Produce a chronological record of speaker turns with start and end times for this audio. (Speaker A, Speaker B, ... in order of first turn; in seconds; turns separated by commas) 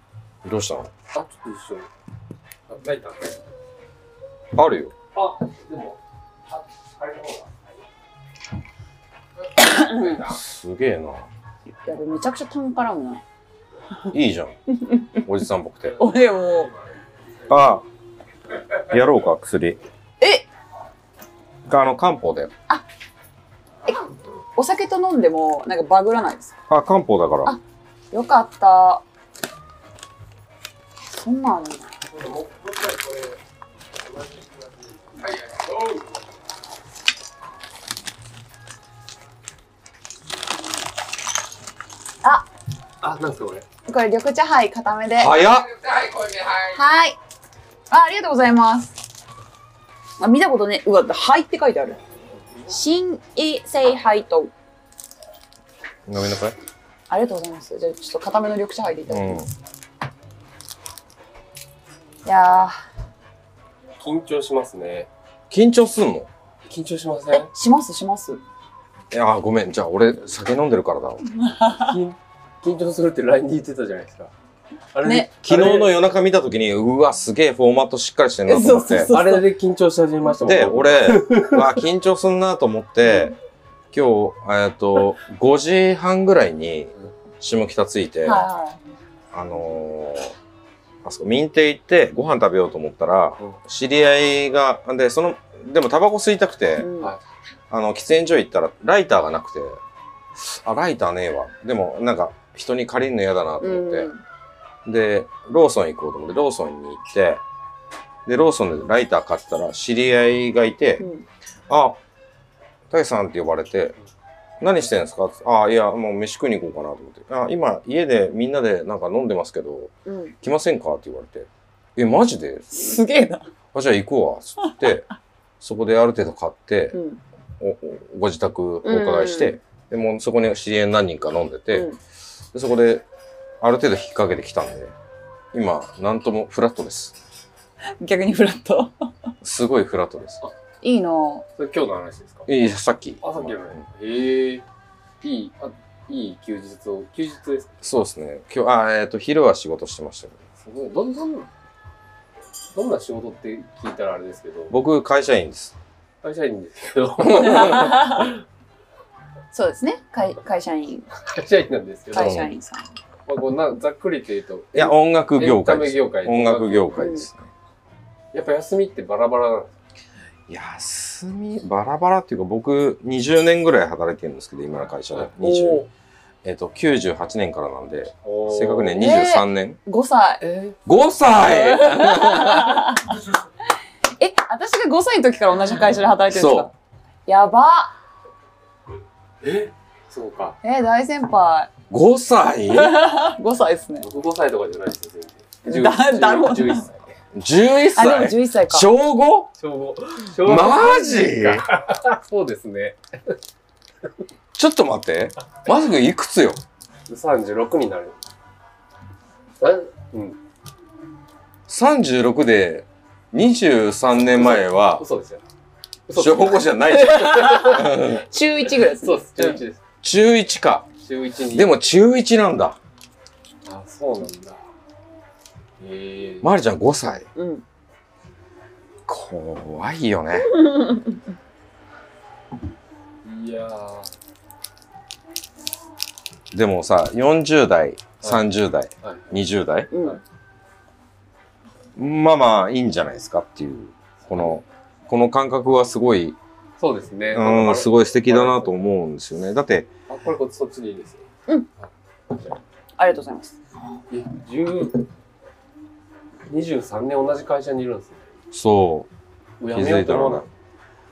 Speaker A: 0.4-0.9, Speaker B: 1.1-1.9, Speaker B: 2.7-3.4, Speaker A: 4.5-4.9, Speaker B: 5.1-7.7, Speaker C: 9.6-10.2, Speaker B: 10.0-10.4, Speaker A: 10.2-11.3, Speaker C: 11.9-13.2, Speaker A: 14.1-14.6, Speaker C: 14.7-15.2, Speaker A: 15.2-16.0, Speaker C: 16.0-16.7, Speaker B: 16.4-16.9, Speaker A: 17.5-17.9, Speaker A: 18.9-19.8, Speaker C: 20.2-20.5, Speaker A: 21.7-22.5, Speaker C: 23.9-26.6, Speaker A: 26.7-27.6, Speaker C: 28.1-29.0, Speaker C: 31.1-31.9, Speaker B: 32.1-33.4, Speaker B: 34.0-36.1, Speaker B: 43.0-43.7, Speaker C: 43.9-45.4, Speaker A: 45.2-46.7, Speaker C: 46.7-47.2, Speaker C: 47.9-49.0, Speaker C: 50.2-52.0, Speaker C: 52.7-54.5, Speaker A: 56.1-56.6, Speaker C: 57.1-59.5, Speaker A: 59.1-59.5, Speaker C: 62.2-62.8, Speaker B: 64.0-65.1, Speaker A: 65.5-66.3, Speaker B: 66.7-67.5, Speaker C: 67.3-68.4, Speaker A: 69.1-71.2, Speaker C: 71.4-72.0, Speaker B: 71.8-74.3, Speaker B: 74.9-75.9, Speaker C: 75.0-75.3, Speaker A: 75.4-79.1, Speaker C: 78.5-79.5, Speaker B: 79.1-81.7, Speaker A: 80.4-83.4, Speaker A: 83.9-88.5, Speaker C: 88.2-88.8, Speaker A: 89.3-90.3, Speaker A: 91.0-96.9, Speaker C: 96.8-97.1, Speaker A: 97.7-99.8, Speaker A: 100.3-104.1, Speaker C: 103.6-104.2, Speaker A: 104.8-107.4, Speaker A: 108.3-111.0, Speaker C: 111.0-111.2, Speaker A: 111.7-112.0, Speaker A: 112.9-114.0, Speaker A: 114.6-123.0, Speaker C: 120.1-120.3, Speaker C: 122.7-123.5, Speaker A: 123.7-125.1, Speaker A: 125.6-127.0, Speaker C: 126.9-127.2, Speaker A: 127.6-131.9, Speaker C: 128.8-129.6, Speaker A: 132.5-133.1, Speaker A: 133.6-134.9, Speaker A: 135.5-137.2, Speaker C: 138.0-138.9, Speaker A: 139.4-140.4, Speaker C: 140.8-141.5, Speaker B: 141.6-142.5, Speaker A: 142.5-143.8, Speaker B: 143.2-144.7, Speaker B: 145.2-147.8, Speaker A: 147.8-150.4, Speaker B: 150.6-151.5, Speaker B: 152.7-154.8, Speaker A: 154.7-155.8, Speaker B: 156.2-158.4, Speaker A: 157.2-157.9, Speaker C: 157.3-158.3, Speaker C: 159.5-161.1, Speaker B: 161.2-162.4, Speaker C: 162.1-162.8, Speaker A: 162.2-162.5, Speaker B: 163.3-167.2, Speaker A: 164.7-167.5, Speaker C: 167.0-167.2, Speaker B: 168.3-169.8, Speaker A: 170.5-175.8, Speaker C: 175.4-175.9, Speaker A: 176.4-179.8, Speaker B: 178.2-179.1, Speaker C: 179.0-180.4, Speaker B: 180.4-180.8, Speaker A: 180.9-183.0, Speaker C: 181.3-183.2, Speaker C: 184.2-186.7, Speaker A: 186.3-186.7, Speaker C: 187.3-187.9, Speaker B: 189.4-190.6, Speaker C: 190.6-191.7, Speaker A: 191.9-193.1, Speaker C: 192.7-194.1, Speaker B: 194.0-197.2, Speaker C: 195.7-196.8, Speaker A: 197.3-199.5, Speaker C: 197.9-198.9, Speaker B: 199.6-203.4, Speaker A: 200.4-201.7, Speaker A: 204.5-206.6, Speaker B: 207.1-208.2, Speaker B: 209.6-210.4, Speaker A: 211.7-215.0, Speaker B: 214.3-215.4, Speaker B: 216.1-219.8, Speaker A: 216.2-218.2, Speaker C: 216.9-219.6, Speaker A: 220.0-220.9, Speaker B: 221.0-221.8, Speaker A: 221.5-222.8, Speaker B: 223.7-224.7, Speaker B: 225.8-226.5, Speaker A: 226.4-227.3, Speaker C: 227.4-227.6, Speaker A: 229.1-230.6, Speaker C: 230.6-231.0, Speaker B: 233.2-234.1, Speaker A: 236.5-239.9, Speaker B: 238.2-238.5, Speaker B: 239.0-239.4, Speaker C: 239.9-240.2, Speaker A: 242.0-246.4, Speaker B: 244.2-244.6, Speaker B: 246.8-248.9, Speaker A: 247.3-249.9, Speaker B: 250.1-251.3, Speaker B: 251.8-252.6, Speaker C: 253.0-253.6, Speaker B: 254.1-255.1, Speaker B: 256.5-258.3, Speaker A: 258.5-259.1, Speaker B: 259.6-260.5, Speaker A: 259.7-260.5